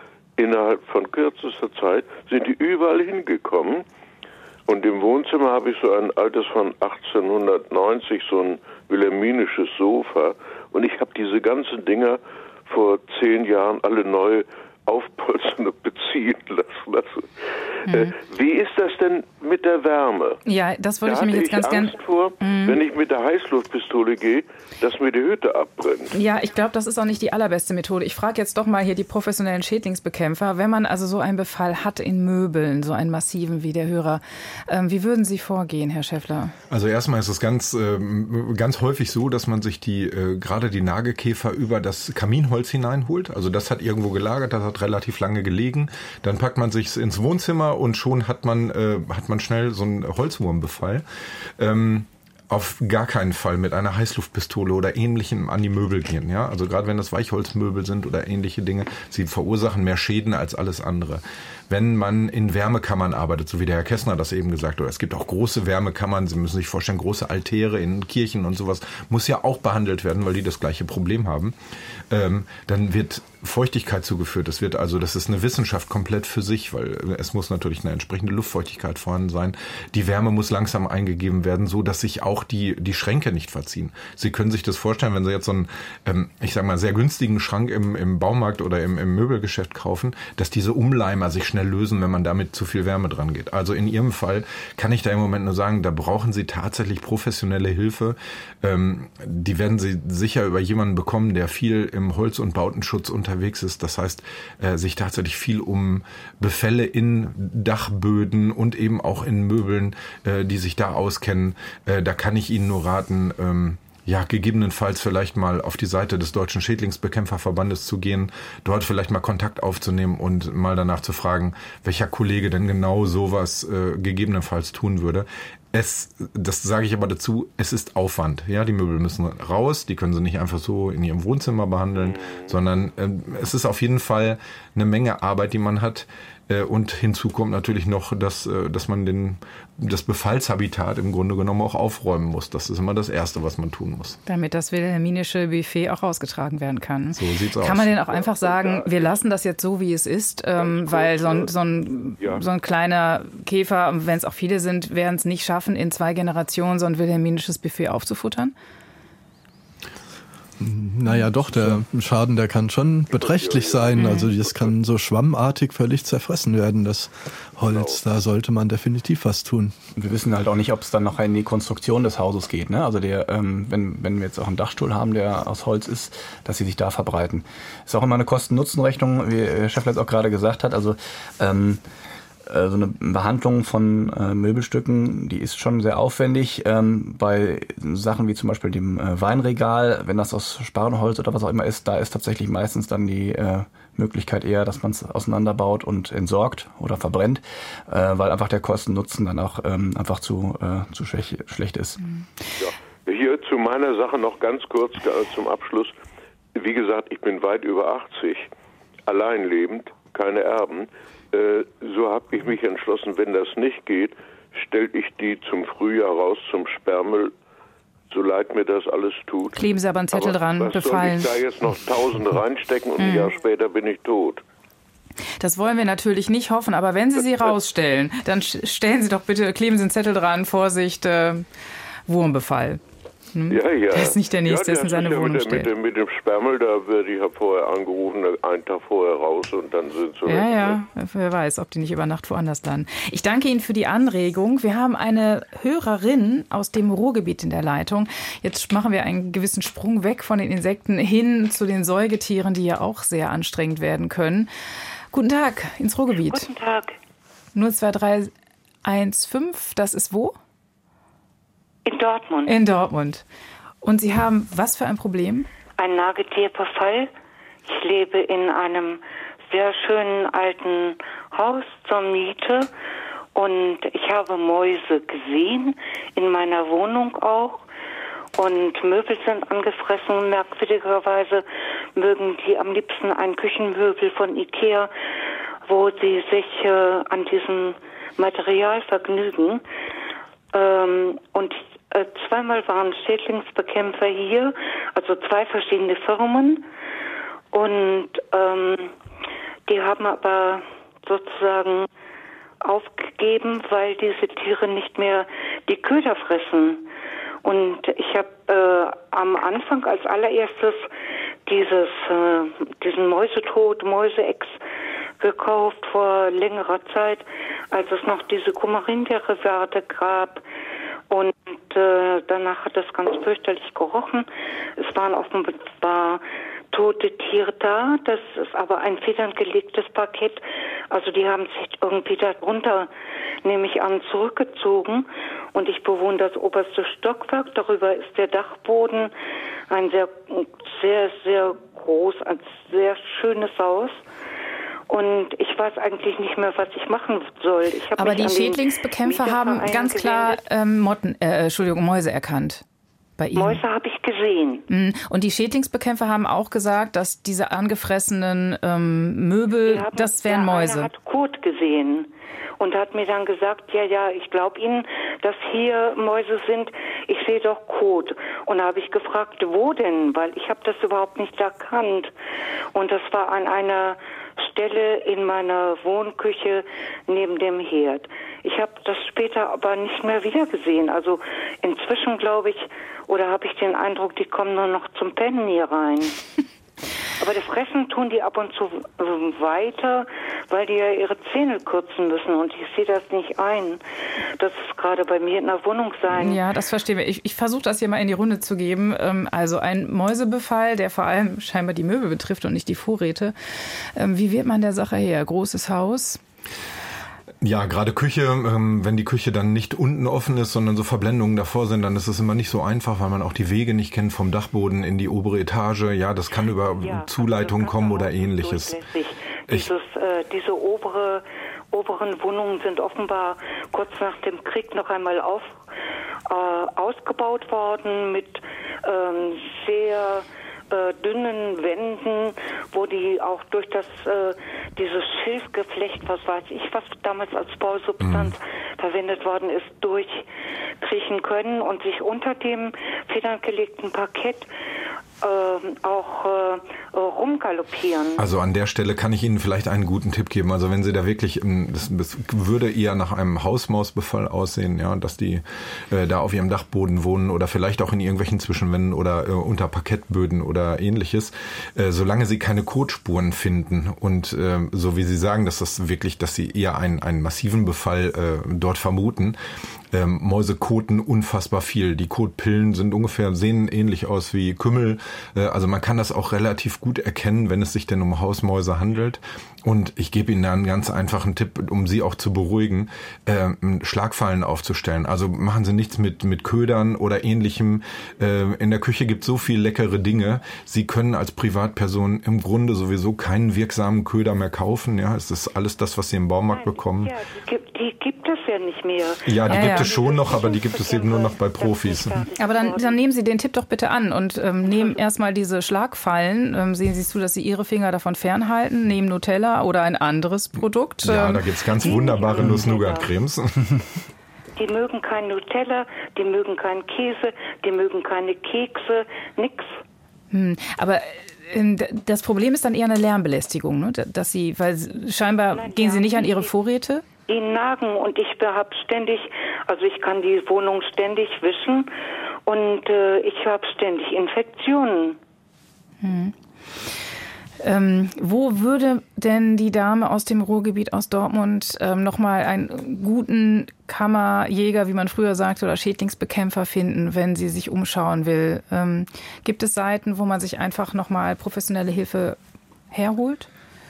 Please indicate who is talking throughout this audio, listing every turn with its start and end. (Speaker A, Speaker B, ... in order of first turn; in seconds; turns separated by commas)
Speaker A: 0.4-3.9, Speaker A: 4.7-17.2, Speaker B: 17.9-18.1, Speaker A: 17.9-20.4, Speaker B: 20.4-22.8, Speaker A: 21.0-26.1, Speaker B: 26.1-36.5, Speaker C: 36.7-51.0, Speaker C: 51.6-71.5, Speaker C: 72.1-144.2, Speaker A: 131.9-132.6, Speaker B: 144.2-158.5, Speaker C: 147.1-147.9, Speaker A: 148.0-149.2, Speaker A: 150.6-151.5, Speaker A: 152.2-152.5, Speaker D: 160.6-169.7, Speaker A: 163.1-164.7, Speaker B: 163.9-164.3, Speaker A: 167.6-168.0, Speaker E: 169.9-181.8, Speaker E: 182.4-202.0, Speaker A: 202.6-205.9, Speaker A: 206.5-208.5, Speaker A: 209.1-217.3, Speaker A: 218.1-224.4, Speaker B: 219.5-221.3, Speaker B: 223.0-223.3, Speaker B: 225.4-231.4, Speaker B: 232.1-232.8, Speaker B: 233.3-235.7, Speaker A: 233.5-240.8, Speaker B: 240.2-254.5, Speaker B: 255.1-256.5, Speaker F: 256.2-257.0, Speaker B: 257.5-258.3, Speaker B: 258.8-260.4, Speaker F: 261.8-262.6, Speaker B: 262.4-263.2, Speaker B: 263.8-265.5, Speaker F: 265.8-267.1, Speaker F: 267.6-272.7, Speaker F: 273.3-277.6, Speaker F: 278.4-281.4, Speaker F: 281.9-284.9, Speaker F: 285.6-289.6, Speaker F: 290.5-296.7, Speaker F: 297.5-298.9, Speaker F: 299.7-301.9, Speaker F: 302.6-306.8, Speaker F: 307.4-310.9, Speaker F: 311.4-314.6, Speaker F: 315.2-320.4, Speaker F: 321.1-324.3, Speaker F: 324.8-332.9, Speaker F: 333.4-339.1, Speaker F: 339.7-344.0, Speaker F: 344.9-350.4, Speaker B: 347.9-352.6, Speaker B: 353.2-353.6, Speaker F: 353.3-354.6, Speaker B: 354.7-360.9, Speaker F: 359.6-372.1, Speaker F: 372.7-386.2, Speaker F: 387.2-393.8, Speaker F: 394.4-396.4, Speaker B: 396.1-403.3, Speaker B: 403.9-406.2, Speaker C: 407.4-418.8, Speaker F: 416.6-425.6, Speaker F: 426.3-440.3, Speaker C: 438.0-438.3, Speaker F: 440.8-444.5, Speaker F: 445.2-448.2, Speaker C: 448.2-469.4, Speaker C: 469.9-497.1, Speaker F: 496.5-503.0, Speaker C: 499.2-502.2, Speaker B: 499.5-499.9, Speaker B: 502.4-511.4, Speaker F: 504.6-505.0, Speaker C: 511.0-513.7, Speaker F: 511.8-513.1, Speaker F: 514.5-519.7, Speaker B: 520.3-527.0, Speaker F: 525.5-526.5, Speaker F: 527.3-531.9, Speaker F: 532.5-535.2, Speaker B: 536.0-536.3, Speaker B: 537.6-552.4, Speaker B: 552.9-553.5